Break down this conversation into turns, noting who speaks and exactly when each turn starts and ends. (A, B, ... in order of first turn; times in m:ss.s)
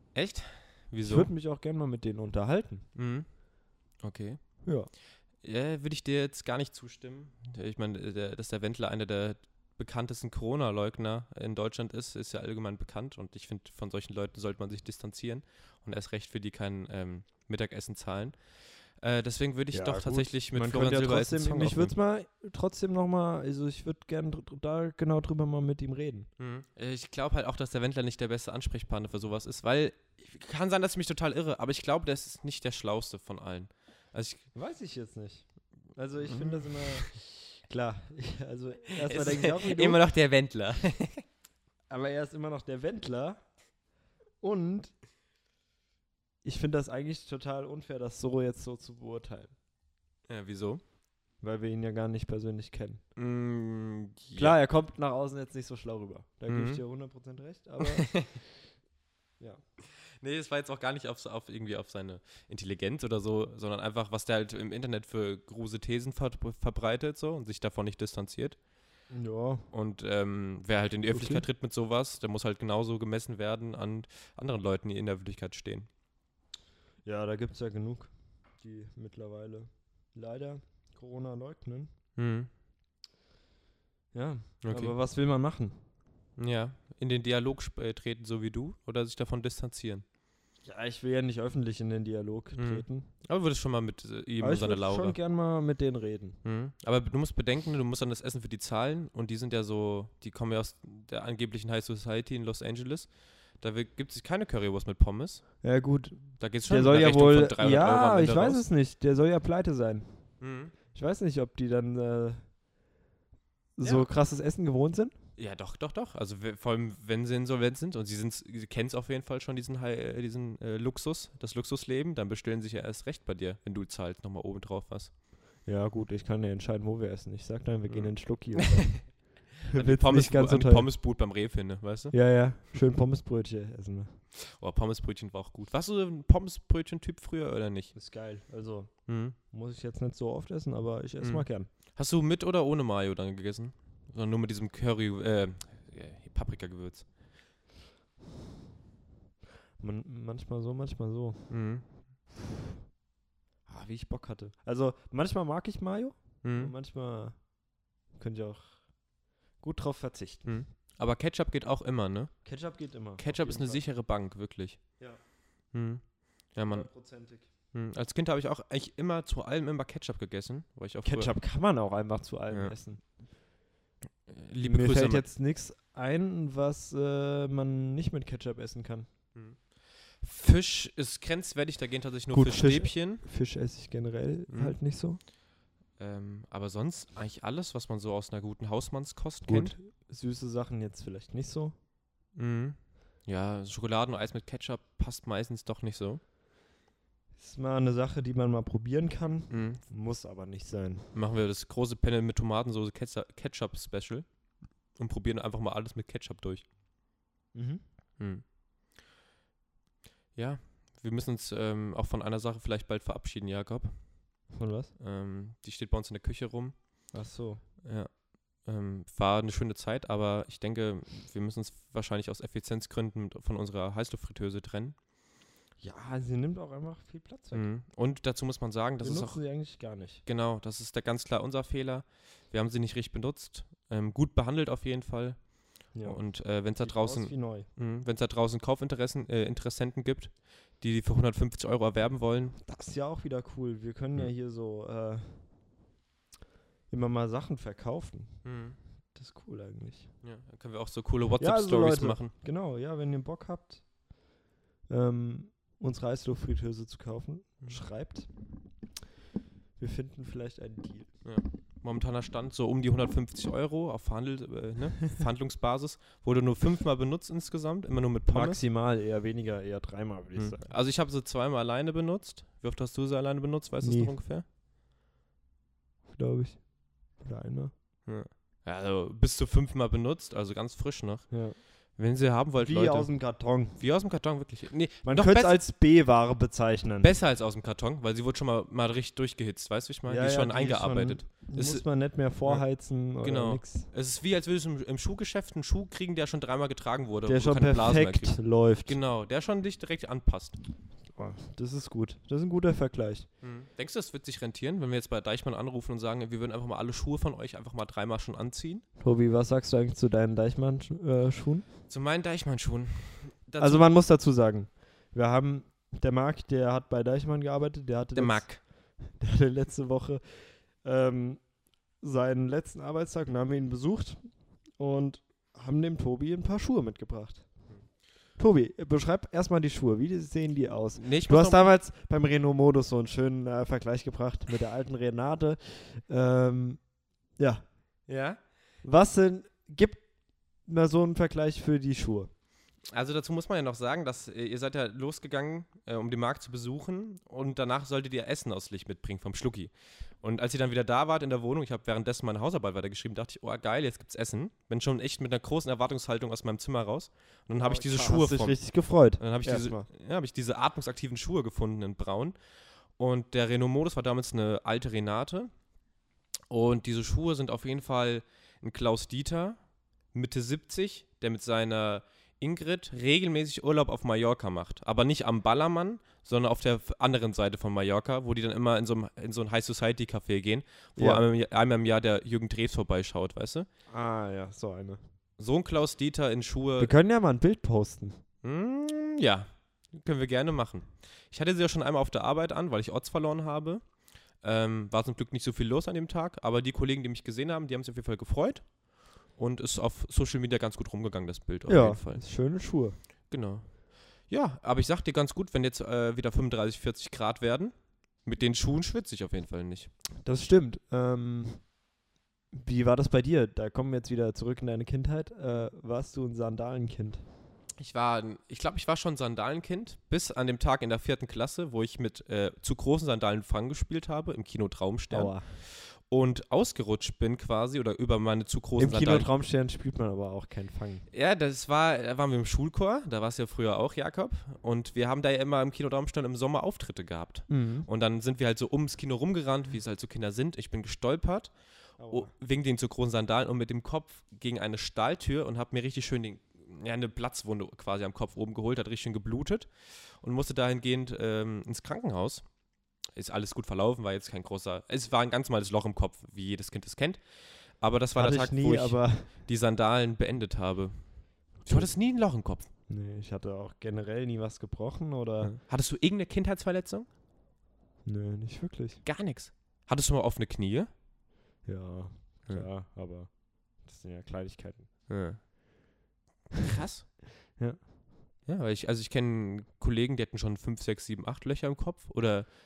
0:00.1-0:01.3 A
0:01.0-0:02.9 B
0:03.0-0:03.3 A
0:04.0-0:04.6 A
0:04.6-0:04.9 B
0:05.4-0:18.4 A
0:19.0-0:21.9 A
0:19.7-0:26.3 B
0:26.4-0:34.5 A
0:34.5-0:40.0 B
0:36.2-0:37.1 A
0:39.0-0:41.2 A
0:41.9-0:43.5 B
0:44.4-0:45.0 B
0:46.4-0:49.5 B
0:50.3-0:50.8 A
0:51.4-0:53.0 B
0:53.2-0:54.6 A
0:54.4-0:58.2 B
0:56.5-0:56.8 A
0:57.8-0:58.4 A
0:59.8-1:08.6 A
1:09.1-1:09.7 B
1:09.7-1:15.9 A
1:11.1-1:11.4 B
1:17.0-1:21.9 B
1:22.2-1:22.5 A
1:24.1-1:25.8 B
1:24.6-1:24.9 A
1:26.4-1:30.0 A
1:30.6-1:33.1 B
1:32.6-1:35.2 A
1:34.4-1:36.4 B
1:36.4-1:45.6 A
1:45.6-1:50.3 B
1:46.4-1:48.6 A
1:50.4-1:50.7 A
1:50.9-1:52.4 B
1:53.8-1:55.1 B
1:53.8-1:54.1 A
1:55.4-2:05.1 A
2:05.6-2:10.9 B
2:07.9-2:12.2 A
2:12.1-2:14.2 B
2:14.4-2:18.0 A
2:17.9-2:21.7 B
2:19.1-2:19.4 A
2:21.2-2:27.1 A
2:29.8-2:31.6 B
2:31.5-2:31.9 A
2:33.7-2:38.9 B
2:36.4-2:36.7 A
2:39.6-2:40.6 B
2:40.4-2:45.0 A
2:42.4-2:43.8 B
2:45.7-2:46.9 A
2:46.7-2:47.5 B
2:47.7-2:51.3 A
2:51.0-2:53.0 B
2:54.3-2:55.2 A
2:54.6-2:59.1 B
2:59.4-3:03.2 A
3:02.3-3:05.2 B
3:04.5-3:04.8 A
3:06.0-3:09.8 A
3:09.5-3:11.8 B
3:12.4-3:16.2 A
3:17.4-3:21.1 B
3:19.5-3:19.8 A
3:21.1-3:24.3 A
3:25.0-3:26.7 A
3:27.5-3:27.8 B
3:28.2-3:28.4 A
3:30.4-3:34.4 A
3:34.5-3:34.9 B
3:35.0-3:36.8 A
3:37.1-3:37.6 B
3:37.8-3:45.0 A
3:45.8-3:47.7 B
3:47.5-3:49.4 A
3:49.0-3:50.2 B
3:50.2-4:02.6 A
3:55.9-3:57.7 B
4:02.6-4:05.7 B
4:06.9-4:08.5 B
4:08.4-4:08.8 A
4:09.1-4:10.1 B
4:10.2-4:12.3 A
4:11.4-4:13.9 B
4:14.9-4:18.3 B
4:19.8-4:21.1 B
4:21.2-4:28.6 A
4:28.3-4:30.7 B
4:30.4-4:34.4 A
4:33.8-4:34.2 B
4:36.1-4:37.7 B
4:38.1-4:45.6 A
4:41.3-4:41.6 B
4:42.6-4:43.8 B
4:45.0-4:47.1 B
4:47.0-5:00.6 A
4:50.1-4:53.9 B
4:57.3-4:59.0 B
5:01.1-5:03.3 B
5:03.4-5:08.8 A
5:09.0-5:11.7 B
5:11.9-5:13.9 A
5:13.6-5:21.4 B
5:18.2-5:18.6 A
5:22.0-5:27.8 B
5:28.4-5:37.7 B
5:31.0-5:31.7 A
5:38.1-5:38.4 A
5:38.8-5:42.3 B
5:42.9-6:02.4 A
5:57.6-5:59.9 B
6:03.0-6:05.5 A
6:06.5-6:09.6 A
6:10.1-6:23.7 A
6:21.0-6:21.2 B
6:23.9-6:25.0 B
6:25.4-6:26.9 A
6:26.8-6:28.2 B
6:28.4-6:42.3 A
6:41.7-6:43.0 B
6:43.3-6:49.9 A
6:50.2-6:51.7 B
6:52.5-6:57.3 B
6:57.8-7:09.3 A
7:05.1-7:05.5 B
7:08.8-7:11.1 B
7:11.1-7:21.5 A
7:17.5-7:17.9 B
7:22.0-7:22.3 B
7:22.1-7:32.5 A
7:33.1-7:42.7 A
7:38.2-7:39.4 B
7:41.6-7:41.9 B
7:42.9-7:45.5 B
7:45.4-7:47.1 A
7:48.1-7:49.0 B
7:49.0-7:50.9 A
7:51.6-7:54.9 B
7:55.1-7:55.5 A
7:56.5-7:57.2 A
7:57.6-7:57.9 B
7:58.5-8:02.5 A